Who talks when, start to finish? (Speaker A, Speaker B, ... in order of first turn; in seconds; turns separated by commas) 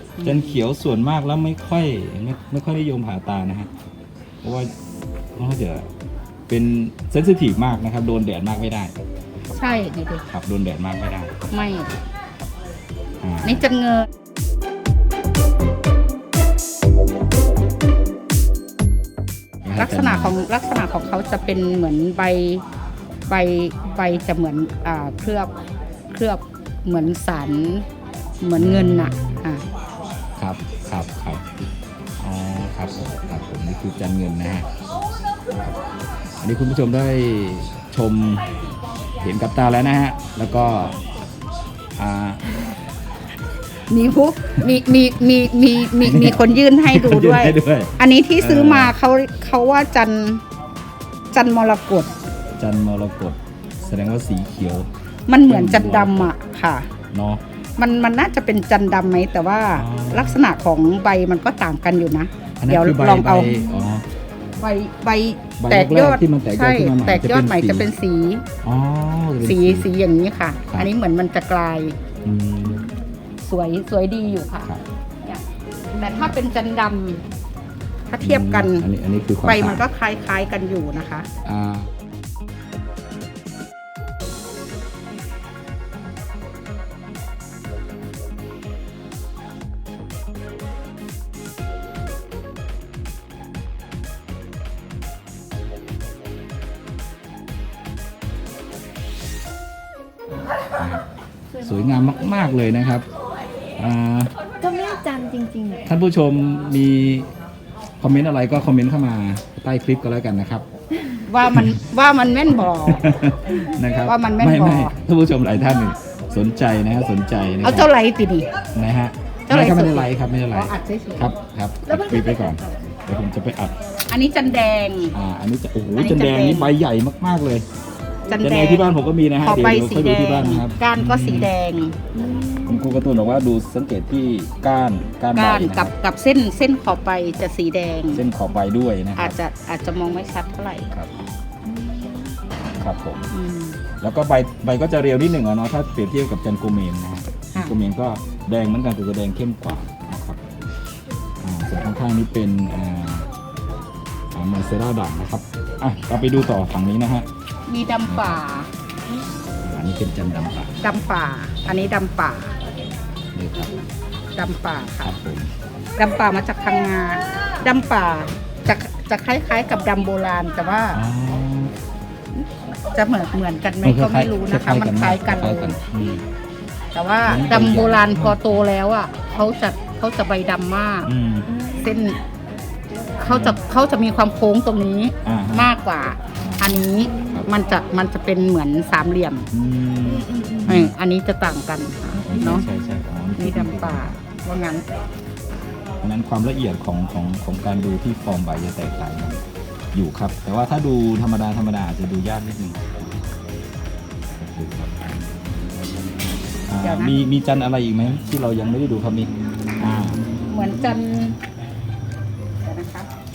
Speaker A: 0.2-0.6, Speaker B: 0.2-3.7, Speaker B: 4.4-4.7, Speaker B: 5.4-5.9, Speaker B: 6.5-9.0, Speaker A: 9.5-10.2, Speaker B: 10.3-11.3, Speaker A: 11.5-11.9, Speaker B: 13.2-13.6, Speaker A: 13.4-14.1, Speaker B: 19.6-20.4, Speaker A: 19.8-22.6, Speaker A: 23.3-25.5, Speaker A: 26.1-27.9, Speaker A: 28.4-29.6, Speaker B: 28.6-29.4, Speaker B: 30.4-31.4, Speaker B: 32.2-34.7, Speaker B: 36.4-38.5, Speaker B: 39.2-41.0, Speaker B: 42.0-42.5, Speaker A: 43.9-50.4, Speaker B: 46.0-49.0, Speaker A: 51.3-52.1, Speaker B: 52.6-54.9, Speaker A: 55.3-56.9, Speaker B: 55.5-56.3, Speaker B: 57.1-57.4, Speaker A: 57.8-63.6, Speaker B: 59.8-60.4, Speaker B: 62.6-64.1, Speaker A: 64.6-68.5, Speaker B: 65.6-67.9, Speaker B: 68.6-69.9, Speaker A: 69.4-72.0, Speaker B: 72.2-72.9, Speaker A: 73.4-74.7, Speaker A: 75.9-77.2, Speaker A: 78.1-78.9, Speaker B: 78.2-79.8, Speaker A: 79.4-81.3, Speaker B: 81.5-81.9, Speaker B: 100.8-101.0, Speaker B: 101.6-103.1, Speaker B: 103.8-104.3, Speaker C: 104.6-105.8, Speaker B: 105.8-107.3, Speaker B: 108.0-110.7, Speaker A: 111.3-113.1, Speaker B: 111.5-111.8, Speaker B: 112.8-117.9, Speaker A: 114.0-115.0, Speaker A: 117.6-118.5, Speaker B: 118.8-123.8, Speaker A: 119.5-121.3, Speaker A: 124.1-125.2, Speaker B: 125.1-127.7, Speaker A: 126.0-126.7, Speaker A: 128.3-132.0, Speaker B: 128.4-131.5, Speaker C: 132.2-132.8, Speaker B: 132.2-135.9, Speaker A: 135.3-138.2, Speaker B: 138.1-139.4, Speaker A: 139.2-140.9, Speaker C: 141.8-142.2, Speaker B: 142.8-143.3, Speaker A: 143.3-143.8, Speaker B: 144.0-150.4, Speaker B: 151.4-153.3, Speaker B: 154.3-157.3, Speaker A: 157.7-158.7, Speaker B: 158.1-158.4, Speaker B: 159.6-160.8, Speaker A: 160.8-162.5, Speaker B: 163.3-163.7, Speaker A: 164.3-165.1, Speaker B: 165.0-165.5, Speaker A: 166.0-171.0, Speaker B: 170.9-171.7, Speaker A: 172.9-175.8, Speaker B: 173.8-176.3, Speaker A: 176.9-181.1, Speaker B: 177.3-178.6, Speaker B: 181.1-181.5, Speaker A: 181.7-182.2, Speaker A: 183.2-189.5, Speaker B: 183.3-183.6, Speaker B: 185.2-185.7, Speaker B: 186.4-187.5, Speaker B: 189.5-190.9, Speaker C: 190.3-190.6, Speaker A: 190.7-192.7, Speaker B: 192.2-194.2, Speaker A: 193.4-194.8, Speaker B: 196.0-203.2, Speaker B: 204.4-205.4, Speaker B: 206.7-210.2, Speaker A: 206.8-207.2, Speaker A: 210.5-211.4, Speaker A: 212.6-213.1